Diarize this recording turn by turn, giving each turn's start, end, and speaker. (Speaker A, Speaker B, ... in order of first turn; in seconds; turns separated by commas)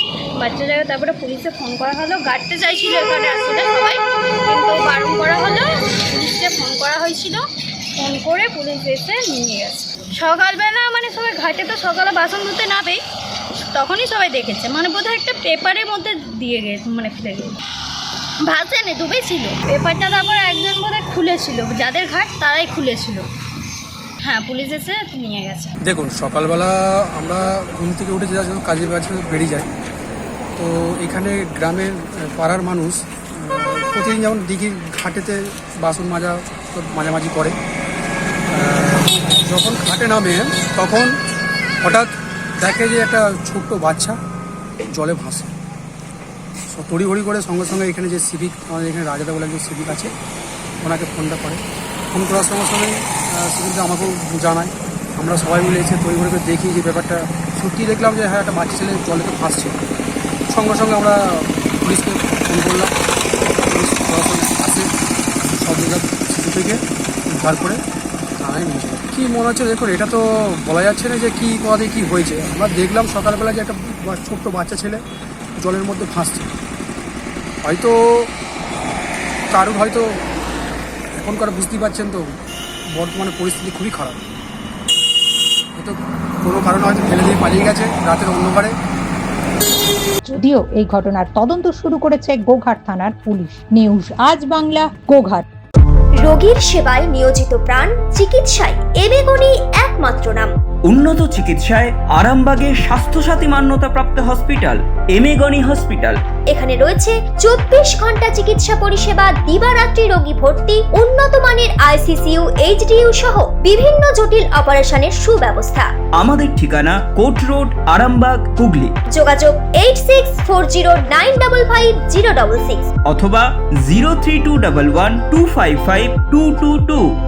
Speaker A: 0.4-7.4, Speaker A: 8.0-13.0, Speaker A: 13.7-17.6, Speaker A: 18.5-23.3, Speaker A: 24.2-25.7, Speaker B: 25.8-29.7, Speaker B: 30.6-37.6, Speaker B: 38.5-41.2, Speaker B: 41.8-42.1, Speaker B: 42.6-44.2, Speaker B: 44.9-45.5, Speaker B: 46.7-50.1, Speaker B: 50.8-59.8, Speaker B: 60.5-64.9, Speaker B: 65.4-67.8, Speaker B: 68.4-75.0, Speaker B: 75.6-76.5, Speaker B: 77.6-78.3, Speaker B: 79.5-80.2, Speaker B: 81.2-82.3, Speaker B: 82.9-84.2, Speaker B: 85.8-88.8, Speaker C: 90.3-95.4, Speaker D: 96.2-100.5, Speaker E: 100.9-106.2, Speaker D: 106.5-115.9, Speaker E: 116.2-118.9, Speaker D: 119.1-122.9, Speaker E: 123.1-127.1